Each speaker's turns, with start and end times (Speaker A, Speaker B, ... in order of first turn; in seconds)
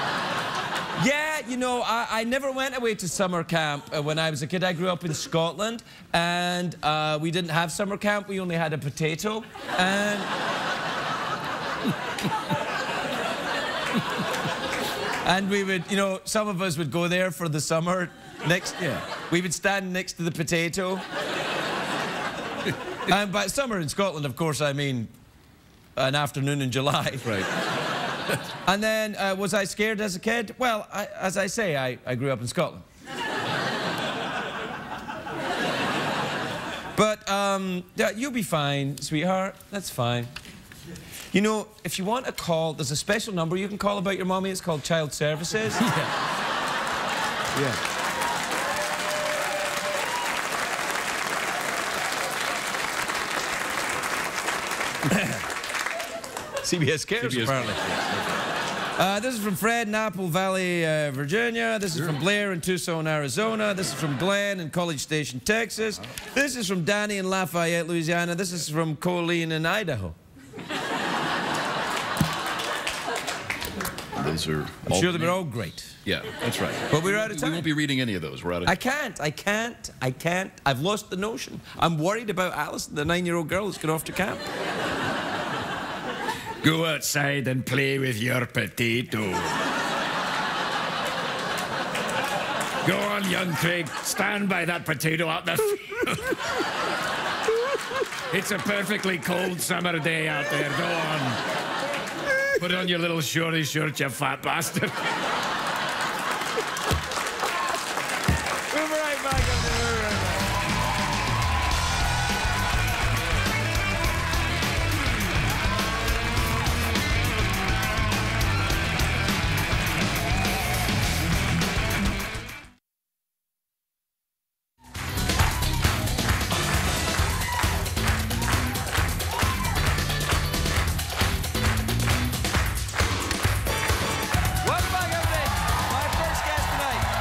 Speaker A: 1.0-10.3, 15.2-21.0, 23.1-25.1, 26.0-27.4, 28.6-32.9, 37.0-40.3, 41.3-45.9, 55.1-55.4, 56.6-57.8, 59.0-70.2, 74.9-76.0, 76.9-77.7, 78.7-84.4, 108.7-110.4, 134.6-137.1
Speaker B: 18.8-19.1, 57.2-58.4, 74.2-75.5, 76.0-78.8
Speaker C: 86.6-89.6, 92.8-96.4, 98.3-101.4, 102.6-105.1